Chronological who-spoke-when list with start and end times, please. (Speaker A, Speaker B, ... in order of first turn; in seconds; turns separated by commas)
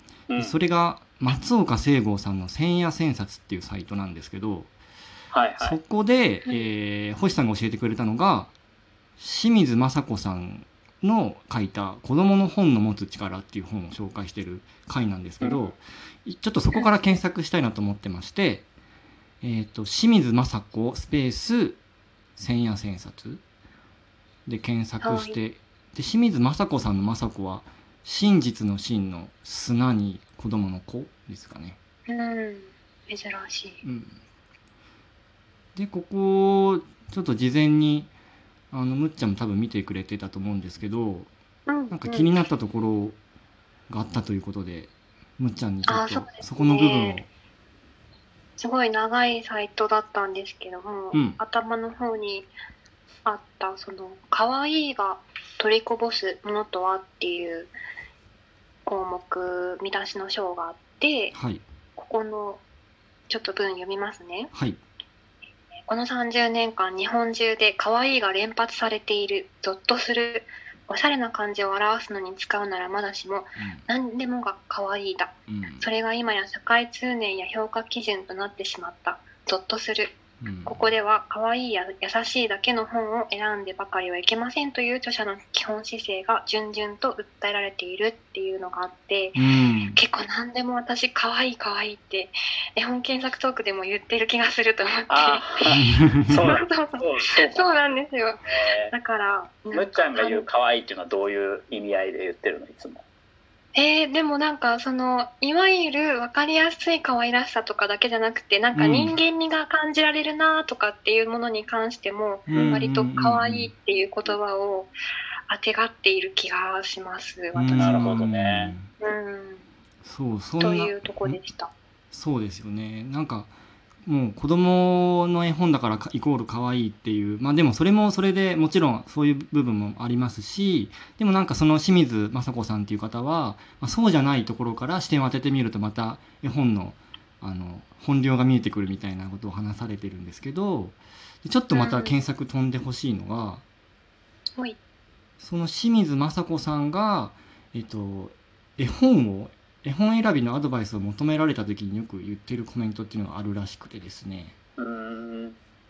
Speaker A: 0.3-0.6, Speaker B: 0.4-4.7, Speaker A: 5.3-5.8, Speaker B: 5.6-8.5, Speaker B: 9.2-18.7, Speaker A: 15.4-15.7, Speaker B: 19.4-21.8, Speaker B: 22.4-23.4, Speaker B: 24.5-31.8, Speaker C: 25.0-25.4, Speaker C: 32.1-33.8, Speaker B: 33.8-34.2, Speaker B: 35.8-38.1, Speaker B: 38.7-41.3, Speaker C: 41.7-42.3, Speaker B: 41.9-43.2, Speaker B: 43.9-47.3, Speaker C: 45.9-47.2, Speaker C: 48.6-52.5, Speaker B: 51.1-51.4, Speaker C: 53.2-57.7, Speaker C: 58.9-61.3, Speaker B: 61.3-61.6, Speaker C: 62.0-62.6, Speaker C: 63.3-64.5, Speaker B: 64.5-64.8, Speaker C: 65.9-100.5, Speaker B: 73.6-73.8, Speaker B: 75.5-75.9, Speaker B: 80.4-80.9, Speaker B: 89.3-90.0, Speaker A: 95.1-97.8, Speaker B: 95.8-96.5, Speaker A: 98.5-98.9, Speaker A: 99.7-103.0, Speaker C: 103.8-114.9, Speaker B: 108.8-109.2, Speaker B: 112.5-113.7, Speaker A: 112.5-112.8, Speaker C: 115.5-118.3, Speaker B: 117.5-118.9, Speaker A: 117.7-118.8, Speaker C: 119.0-119.6, Speaker B: 120.0-121.4, Speaker C: 120.6-121.7, Speaker B: 122.1-123.5, Speaker B: 124.1-143.6, Speaker C: 141.7-142.2, Speaker B: 145.4-154.6, Speaker A: 154.8-155.6